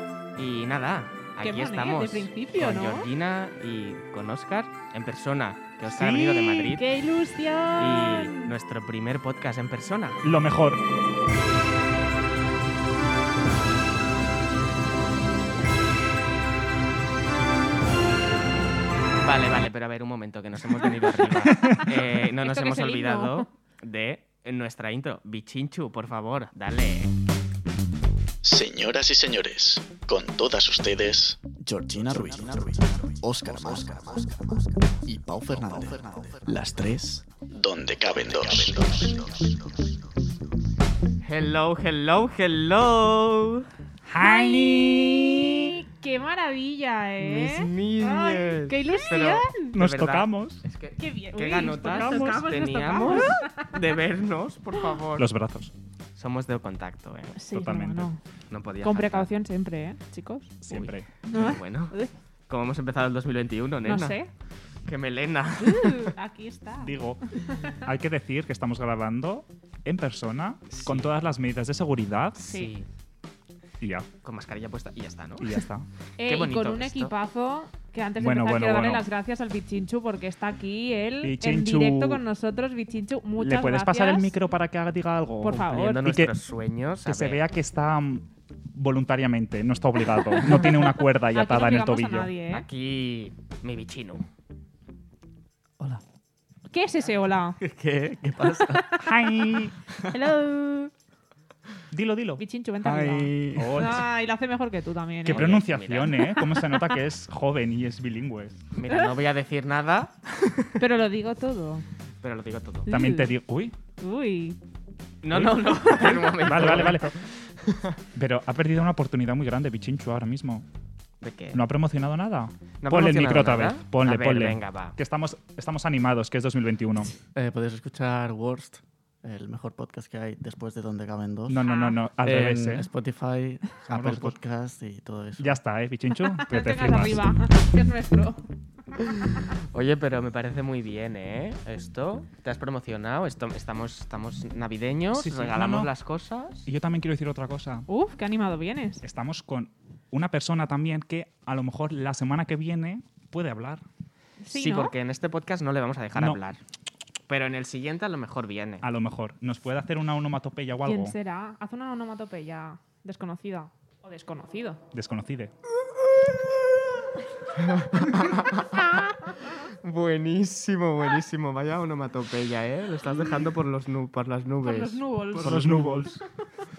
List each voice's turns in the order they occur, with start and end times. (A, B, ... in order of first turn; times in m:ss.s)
0:00.4-0:06.8 A
0:01.4-0:03.1 B
0:05.8-0:06.6 C
0:06.6-0:08.5 B
0:07.8-0:10.2 A
0:10.2-0:10.8 C
0:19.2-0:27.1 A
0:21.4-0:21.9 C
0:21.6-0:23.5 B
0:28.4-0:34.5 D
0:32.0-0:34.3 E
0:35.1-0:37.0 E
0:35.1-0:39.7 D
0:41.2-0:43.7 A
0:44.1-0:45.8 C
0:44.2-0:49.7 B
0:47.2-0:55.3 A
0:49.7-0:50.6 C
0:51.0-0:53.7 B
0:52.0-0:52.4 C
0:55.2-0:55.7 C
0:56.1-0:57.4 A
0:57.3-0:58.2 B
0:57.5-0:58.1 C
0:58.5-0:59.3 A
0:58.8-1:00.6 B
1:00.6-1:01.1 C
1:00.7-1:01.9 A
1:01.3-1:02.1 B
1:02.5-1:04.2 A
1:03.8-1:04.3 B
1:04.8-1:06.1 A
1:05.6-1:07.8 B
1:06.8-1:07.2 C
1:07.8-1:12.4 C
1:10.7-1:11.1 A
1:12.4-1:12.9 A
1:12.5-1:12.7 B
1:13.8-1:14.1 C
1:14.2-1:15.6 A
1:15.4-1:15.8 C
1:16.2-1:24.4 B
1:16.2-1:17.1 A
1:18.2-1:19.1 C
1:21.2-1:22.2 C
1:23.4-1:26.3 C
1:25.4-1:26.0 B
1:25.7-1:27.4 A
1:27.0-1:32.3 C
1:30.4-1:32.7 B
1:32.5-1:34.2 A
1:36.7-1:37.6 B
1:37.6-1:39.0 A
1:38.5-1:40.9 B
1:39.0-1:39.7 C
1:41.9-1:44.1 C
1:42.4-1:45.5 B
1:45.2-1:48.6 C
1:45.3-1:46.3 A
1:46.4-1:46.9 B
1:48.7-1:50.8 A
1:50.8-1:51.8 B
1:52.2-1:52.9 A
1:52.8-1:53.4 B
1:52.9-1:53.8 C
1:54.0-1:54.6 B
1:55.2-1:58.0 A
1:55.3-1:57.2 C
1:58.1-2:00.6 C
2:01.2-2:01.6 A
2:01.5-2:07.1 C
2:02.8-2:05.0 A
2:07.3-2:11.6 E
2:11.5-2:12.9 C
2:11.6-2:12.0 B
2:12.2-2:15.6 E
2:13.9-2:14.4 C
2:15.4-2:17.4 C
2:16.3-2:19.3 B
2:19.0-2:26.7 A
2:25.1-2:25.9 C
2:26.6-2:27.9 C
2:27.9-2:29.0 B
2:29.0-2:33.8 C
2:34.4-2:34.9 B
2:34.5-2:36.6 A
2:37.3-2:38.9 A
2:38.8-2:41.2 C
2:40.8-2:44.8 B
2:44.9-2:45.5 C
2:47.5-2:56.0 A
2:54.6-2:56.2 B
2:55.3-2:56.2 C